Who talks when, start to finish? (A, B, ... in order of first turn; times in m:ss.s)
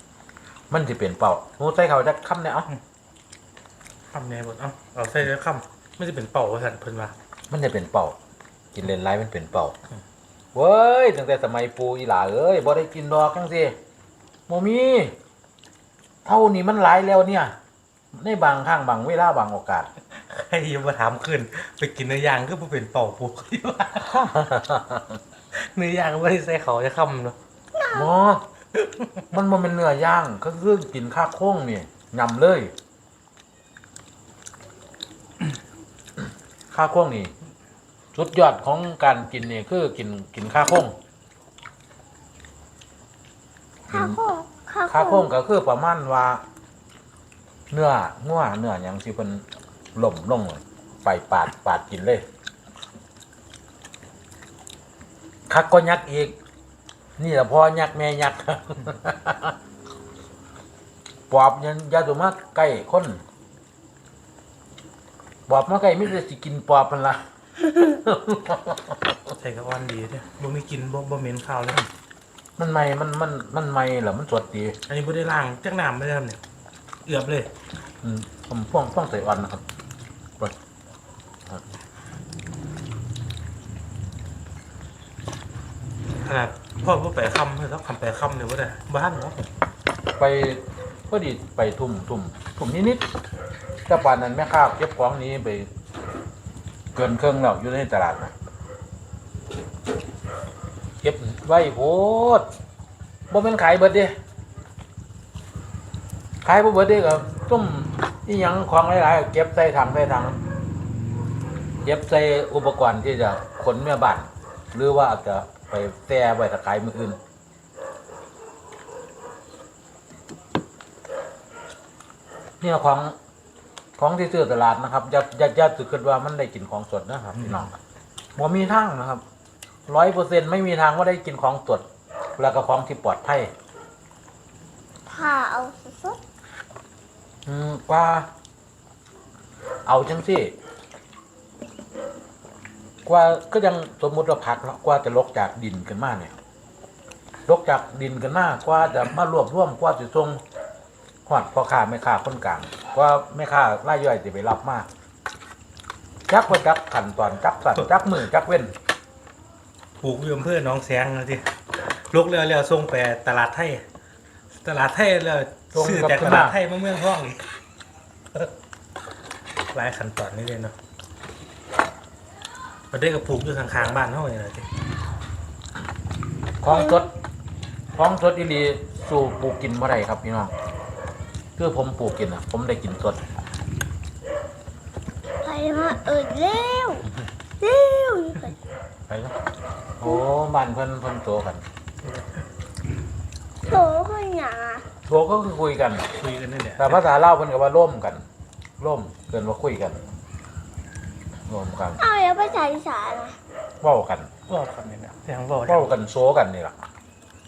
0:00.7-0:02.7 A
0:04.1-0:07.1 B
0:07.5-0:08.2 A
0:08.7-0:09.7 A
0:10.5-0:13.7 A
0:14.5-0:15.2 A
0:16.2-0:17.6 A
0:18.2-0:19.9 A
0:20.1-0:24.2 B
0:24.0-0:25.2 A
0:25.5-0:27.4 B
0:27.7-0:28.1 C
0:27.9-0:28.4 A
0:28.8-0:29.2 B
0:29.3-0:32.7 A
0:36.7-0:37.3 A
0:38.1-0:41.0 A
0:43.9-0:45.3 C
0:43.9-0:44.2 A
0:44.9-0:46.4 A
0:47.7-0:49.4 A
0:50.0-0:52.2 A
0:55.5-0:56.4 A
0:57.2-0:59.6 A
1:01.3-1:03.2 A
1:05.5-1:07.2 A
1:07.8-1:09.0 A
1:09.4-1:11.8 B
1:12.6-1:14.8 A
1:14.9-1:16.4 B
1:17.0-1:17.5 B
1:18.0-1:19.6 A
1:26.2-1:29.5 B
1:30.2-1:33.0 A
1:33.9-1:35.7 A
1:37.0-1:38.3 A
1:41.0-1:42.4 A
1:43.3-1:44.1 A
1:46.4-1:50.4 A
1:51.8-1:57.2 A
2:02.6-2:03.1 A
2:04.0-2:07.8 A
2:08.4-2:09.2 A
2:09.9-2:11.8 A
2:12.4-2:13.5 A
2:15.1-2:16.2 C
2:17.5-2:18.3 A
2:19.8-2:20.5 A
2:23.0-2:26.3 A
2:27.5-2:30.4 A
2:31.2-2:34.9 A
2:36.3-2:38.7 A
2:40.0-2:43.8 B
2:44.6-2:47.5 B
2:45.7-2:46.6 A
2:49.7-2:50.7 B
2:52.9-2:54.7 B
2:56.6-2:57.1 A
2:56.7-2:57.1 C
2:57.9-3:00.5 A
3:01.6-3:03.2 A
3:05.4-3:07.1 C
3:07.6-3:08.6 C
3:09.1-3:09.3 A
3:10.0-3:11.6 A
3:12.0-3:12.3 B
3:13.6-3:14.8 C
3:15.1-3:16.1 A
3:16.2-3:17.0 B
3:16.8-3:18.2 A
3:18.8-3:20.0 A
3:21.5-3:22.0 A
3:22.0-3:23.4 C
3:23.8-3:24.3 A
3:24.5-3:25.9 B
3:25.7-3:26.8 A